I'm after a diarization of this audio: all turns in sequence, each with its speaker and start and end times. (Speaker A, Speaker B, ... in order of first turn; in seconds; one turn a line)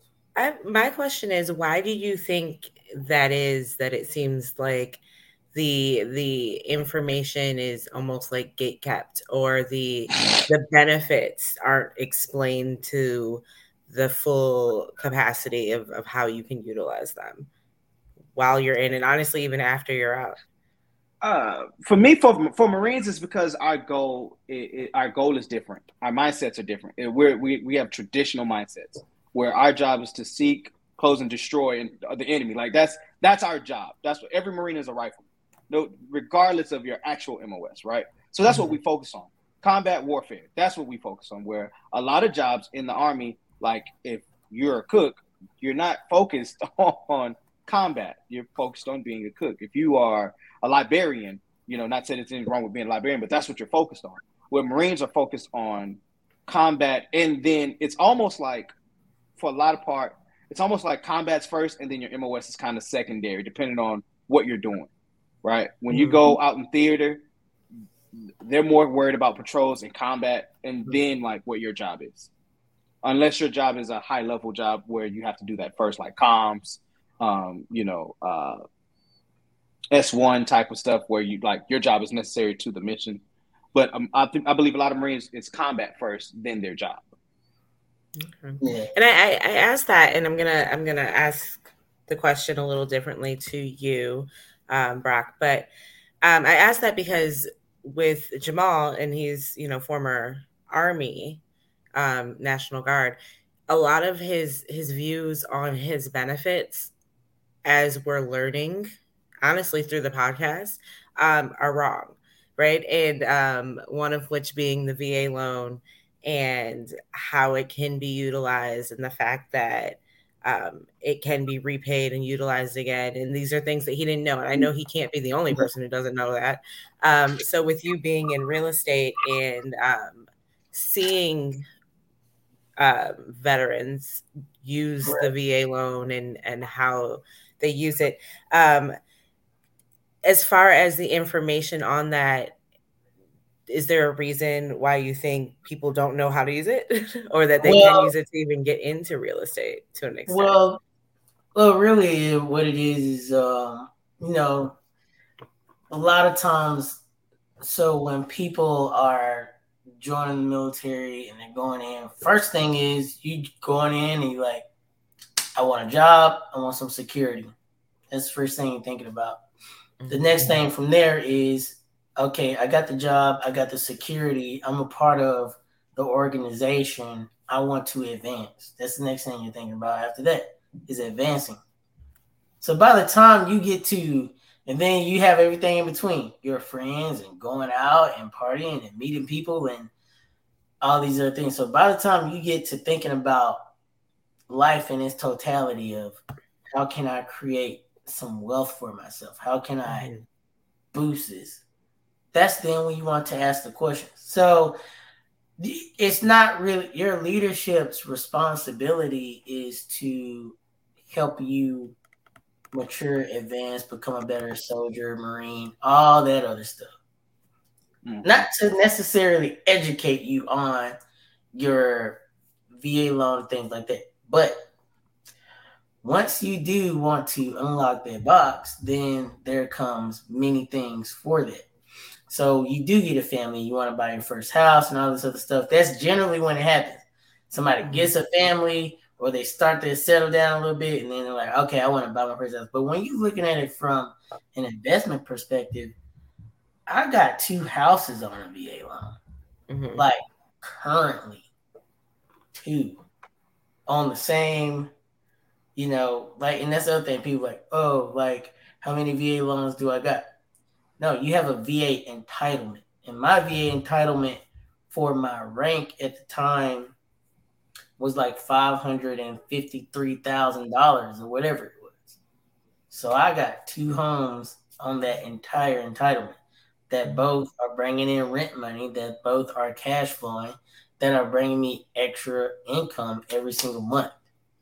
Speaker A: 0.3-5.0
Speaker A: 5.5-17.5
Speaker A: 18.4-20.4
Speaker B: 21.2-58.7
Speaker B: 59.4-64.9
Speaker B: 65.4-67.2
Speaker A: 65.9-66.3
Speaker B: 68.4-72.3
Speaker B: 73.0-78.6
Speaker B: 79.9-83.2
Speaker B: 83.7-87.1
Speaker A: 88.2-95.7
Speaker C: 88.6-88.9
Speaker A: 96.2-101.4
Speaker A: 101.9-103.2
Speaker A: 103.7-106.9
Speaker A: 107.6-108.9
Speaker A: 109.4-131.6
Speaker A: 132.8-138.9
Speaker A: 140.2-142.6
Speaker A: 143.7-150.6
Speaker C: 147.6-148.1
Speaker C: 150.3-150.8
Speaker C: 151.5-154.8
Speaker C: 155.9-157.0
Speaker C: 157.6-164.6
Speaker C: 165.6-167.5
Speaker C: 168.1-169.4
Speaker A: 170.0-170.6
Speaker C: 170.1-181.6
Speaker C: 182.6-189.9
Speaker C: 190.8-193.6
Speaker C: 194.5-196.2
Speaker C: 196.7-200.1
Speaker A: 199.9-200.3
Speaker C: 200.9-201.6
Speaker C: 202.3-204.8
Speaker C: 205.6-210.6
Speaker C: 211.1-211.9
Speaker C: 212.7-216.9
Speaker B: 218.0-218.4
Speaker C: 218.2-220.9
Speaker C: 221.5-222.2
Speaker C: 222.7-224.7
Speaker C: 226.0-231.7
Speaker C: 232.3-245.9
Speaker A: 237.8-238.1
Speaker C: 246.9-249.2
Speaker A: 249.7-250.1
Speaker C: 250.0-251.5
Speaker C: 252.5-253.0
Speaker C: 253.9-254.9
Speaker C: 255.8-260.2
Speaker C: 261.0-266.9
Speaker C: 268.0-272.1
Speaker C: 272.9-276.4
Speaker C: 276.9-284.1